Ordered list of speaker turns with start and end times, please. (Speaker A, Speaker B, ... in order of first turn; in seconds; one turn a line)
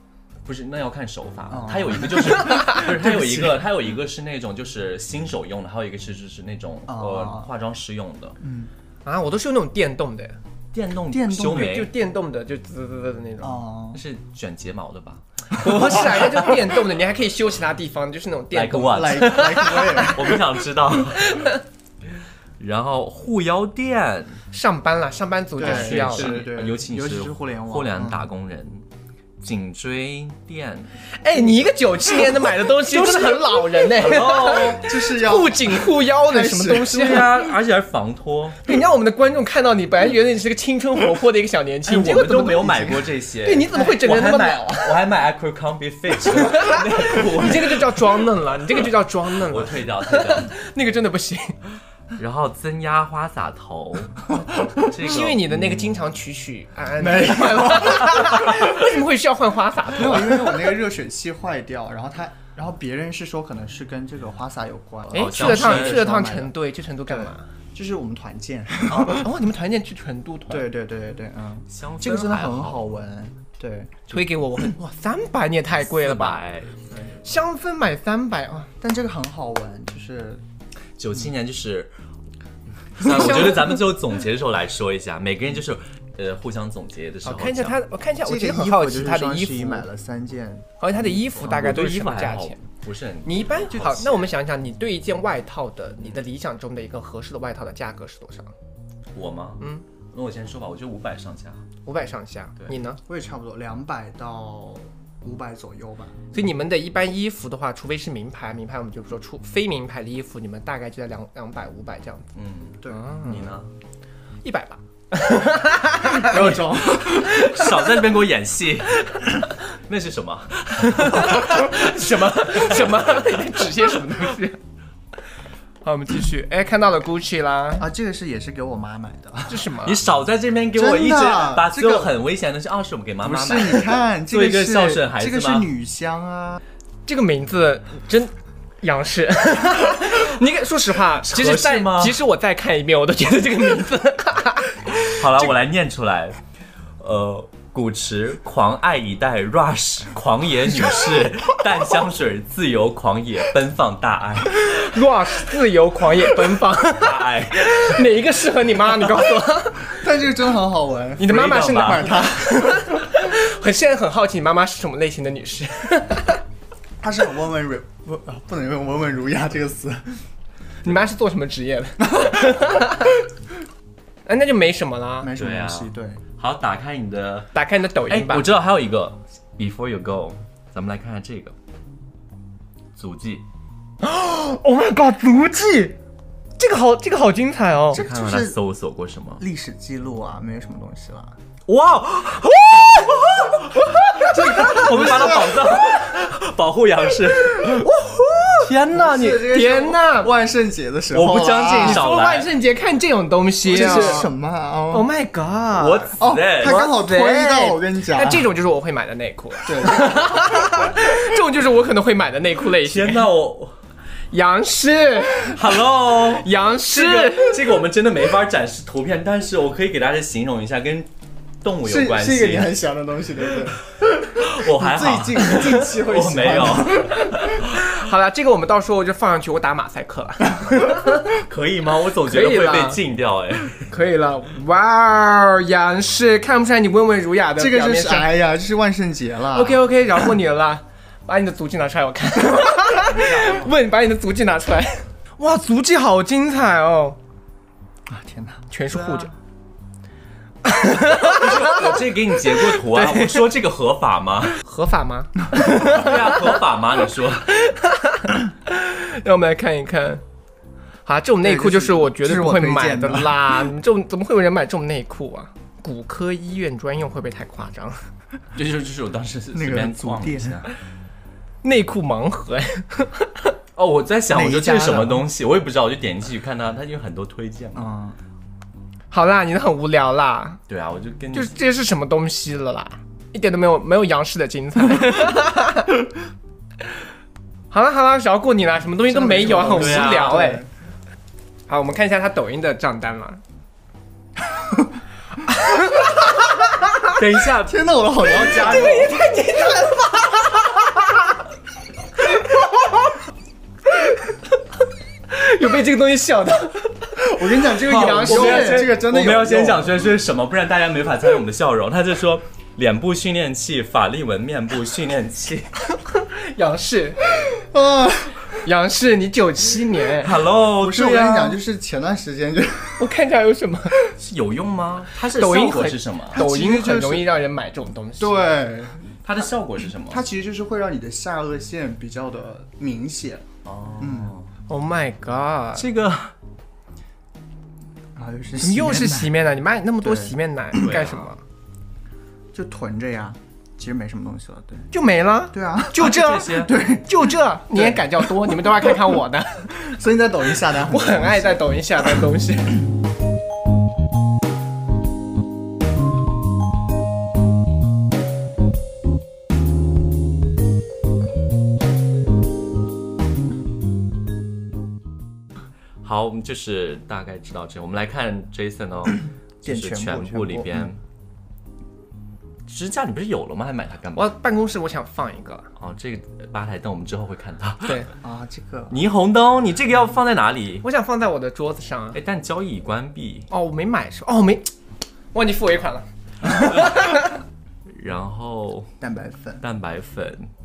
Speaker A: 0.5-8.4
Speaker B: 1.5-3.6
Speaker B: 6.9-7.5
Speaker B: 8.4-8.7
Speaker C: 9.0-10.4
Speaker A: 10.7-11.9
Speaker B: 11.1-11.7
Speaker C: 11.4-13.6
Speaker B: 13.4-14.0
Speaker A: 13.9-16.7
Speaker C: 15.6-20.3
Speaker A: 18.5-21.5
Speaker B: 18.9-20.4
Speaker C: 21.2-21.6
Speaker A: 22.6-24.4
Speaker C: 24.5-26.4
Speaker B: 25.6-28.2
Speaker A: 25.6-28.8
Speaker A: 29.4-30.9
Speaker C: 31.2-37.5
Speaker A: 32.9-34.9
Speaker B: 34.5-37.0
Speaker A: 36.8-38.6
Speaker C: 38.6-45.0
Speaker A: 41.8-48.1
Speaker B: 43.7-44.0
Speaker C: 46.2-51.5
Speaker A: 49.4-50.5
Speaker A: 52.2-55.9
Speaker C: 55.0-60.8
Speaker B: 57.0-58.7
Speaker B: 59.9-66.5
Speaker C: 65.1-67.5
Speaker A: 65.1-66.0
Speaker B: 67.1-69.3
Speaker C: 68.9-70.7
Speaker B: 70.5-74.0
Speaker A: 71.7-72.8
Speaker C: 74.1-76.4
Speaker A: 75.8-76.8
Speaker B: 76.9-77.2
Speaker C: 77.2-78.7
Speaker B: 78.8-80.4
Speaker A: 81.0-81.9
Speaker A: 83.0-87.8
Speaker C: 83.0-83.8
Speaker C: 87.2-89.9
Speaker B: 88.2-90.7
Speaker C: 90.8-92.6
Speaker A: 91.2-94.3
Speaker C: 93.2-98.5
Speaker A: 99.1-101.6
Speaker C: 101.8-103.0
Speaker B: 103.0-106.3
Speaker C: 106.3-112.3
Speaker A: 112.3-113.7
Speaker C: 112.8-113.5
Speaker C: 114.4-118.0
Speaker B: 116.1-117.3
Speaker A: 117.0-119.1
Speaker A: 119.9-121.7
Speaker C: 120.8-124.6
Speaker C: 125.8-127.8
Speaker B: 127.8-129.7
Speaker C: 129.5-130.0
Speaker A: 129.8-135.7
Speaker B: 130.7-132.1
Speaker B: 133.2-136.6
Speaker C: 137.1-145.5
Speaker A: 141.2-142.2
Speaker A: 145.0-146.4
Speaker A: 147.0-154.8
Speaker C: 154.6-160.0
Speaker A: 156.9-158.0
Speaker B: 159.9-163.0
Speaker C: 161.2-166.4
Speaker A: 161.2-162.2
Speaker B: 167.0-170.2
Speaker C: 170.8-173.2
Speaker C: 174.2-175.3
Speaker B: 175.2-176.2
Speaker A: 175.3-177.5
Speaker C: 177.5-178.5
Speaker A: 178.1-181.5
Speaker A: 183.0-183.4
Speaker C: 184.0-186.0
Speaker C: 186.6-188.0
Speaker B: 187.9-188.6
Speaker A: 187.9-189.4
Speaker B: 189.4-191.3
Speaker A: 191.7-197.9
Speaker C: 192.7-195.9
Speaker C: 197.5-198.7
Speaker A: 198.6-199.5
Speaker B: 198.9-202.1
Speaker C: 199.3-200.3
Speaker A: 201.1-202.5
Speaker C: 201.7-204.3
Speaker B: 203.6-205.1
Speaker A: 203.7-204.2
Speaker C: 204.9-213.3
Speaker A: 205.8-206.8
Speaker B: 206.2-208.5
Speaker B: 209.6-210.7
Speaker A: 212.8-213.7
Speaker C: 214.3-215.6
Speaker A: 215.5-221.1
Speaker C: 216.3-217.7
Speaker A: 221.6-222.7
Speaker B: 221.8-227.3
Speaker A: 224.3-227.8
Speaker C: 227.5-231.3
Speaker A: 231.3-233.9
Speaker C: 232.3-233.0
Speaker C: 233.9-238.3
Speaker B: 237.6-239.8
Speaker C: 239.5-247.2
Speaker A: 243.0-243.7
Speaker B: 248.1-248.7
Speaker C: 248.7-249.3
Speaker A: 248.9-249.3
Speaker C: 250.6-252.0
Speaker A: 251.2-254.6
Speaker C: 252.5-253.5
Speaker C: 254.6-256.6
Speaker A: 255.5-257.5
Speaker C: 257.5-260.2
Speaker C: 261.0-268.0
Speaker B: 261.4-263.5
Speaker A: 268.5-270.7
Speaker B: 269.5-270.6
Speaker C: 271.6-273.5
Speaker A: 273.8-277.9
Speaker B: 274.3-275.3
Speaker B: 277.7-278.2
Speaker C: 279.1-280.6
Speaker A: 280.7-281.5
Speaker C: 281.3-285.9
Speaker C: 287.7-290.6
Speaker B: 289.1-290.7
Speaker A: 289.6-290.5
Speaker C: 291.7-293.4
Speaker B: 294.5-294.9
Speaker C: 295.5-296.8
Speaker A: 297.1-299.1
Speaker B: 297.5-299.9
Speaker C: 298.3-301.1
Speaker C: 302.3-302.9
Speaker C: 303.9-304.3
Speaker C: 305.3-309.0
Speaker B: 307.2-310.0
Speaker A: 307.9-315.7
Speaker C: 315.9-317.2
Speaker B: 317.4-318.5
Speaker C: 318.6-320.4
Speaker A: 320.2-321.6
Speaker B: 320.8-323.1
Speaker C: 323.0-324.0
Speaker A: 324.1-326.4
Speaker C: 325.1-328.5
Speaker B: 326.3-327.3
Speaker B: 328.2-329.1
Speaker A: 329.2-330.2
Speaker B: 330.1-333.4
Speaker A: 333.6-334.5
Speaker B: 334.0-334.3
Speaker C: 334.7-335.9
Speaker A: 335.7-336.3
Speaker B: 338.1-339.4
Speaker C: 338.6-341.4
Speaker B: 340.0-340.3
Speaker A: 340.7-341.3
Speaker B: 342.5-344.9
Speaker C: 344.9-349.8
Speaker B: 345.5-348.1
Speaker A: 345.9-346.8
Speaker B: 349.8-351.6
Speaker C: 350.7-352.8
Speaker A: 366.0-371.0
Speaker B: 369.6-370.9
Speaker A: 372.7-374.3
Speaker C: 374.1-375.7
Speaker A: 375.8-378.1
Speaker B: 378.2-378.9
Speaker A: 378.9-380.8
Speaker C: 380.8-382.2
Speaker A: 382.1-383.5
Speaker C: 383.5-384.7
Speaker C: 385.3-387.4
Speaker A: 387.9-388.9
Speaker B: 389.0-389.6
Speaker A: 389.6-390.5